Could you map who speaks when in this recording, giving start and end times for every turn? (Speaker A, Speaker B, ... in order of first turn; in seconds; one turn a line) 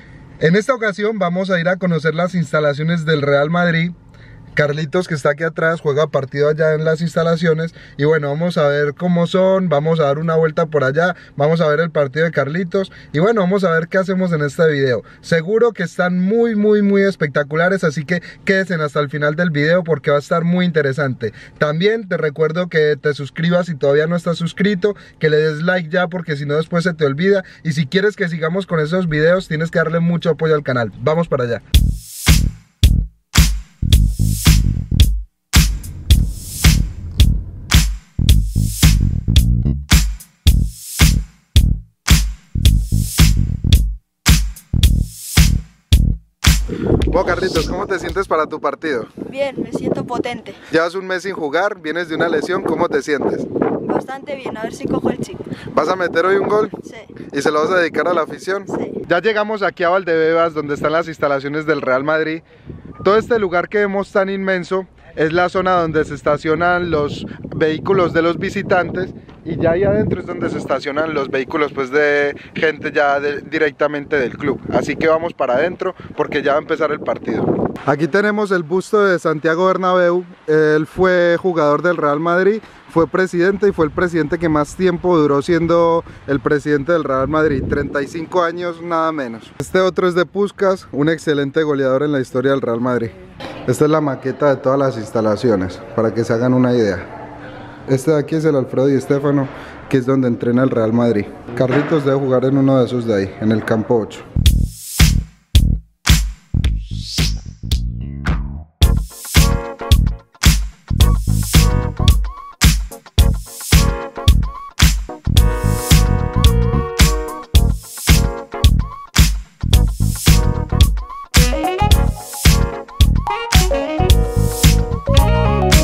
Speaker A: 0.4-3.9
Speaker A: 4.5-31.6
Speaker A: 47.1-49.1
Speaker B: 49.2-50.6
Speaker A: 50.7-53.5
Speaker B: 53.8-55.4
Speaker A: 55.7-56.7
Speaker B: 56.8-57.1
Speaker A: 57.2-62.4
Speaker B: 58.7-59.0
Speaker A: 63.0-93.1
Speaker A: 93.7-97.0
Speaker A: 97.9-104.2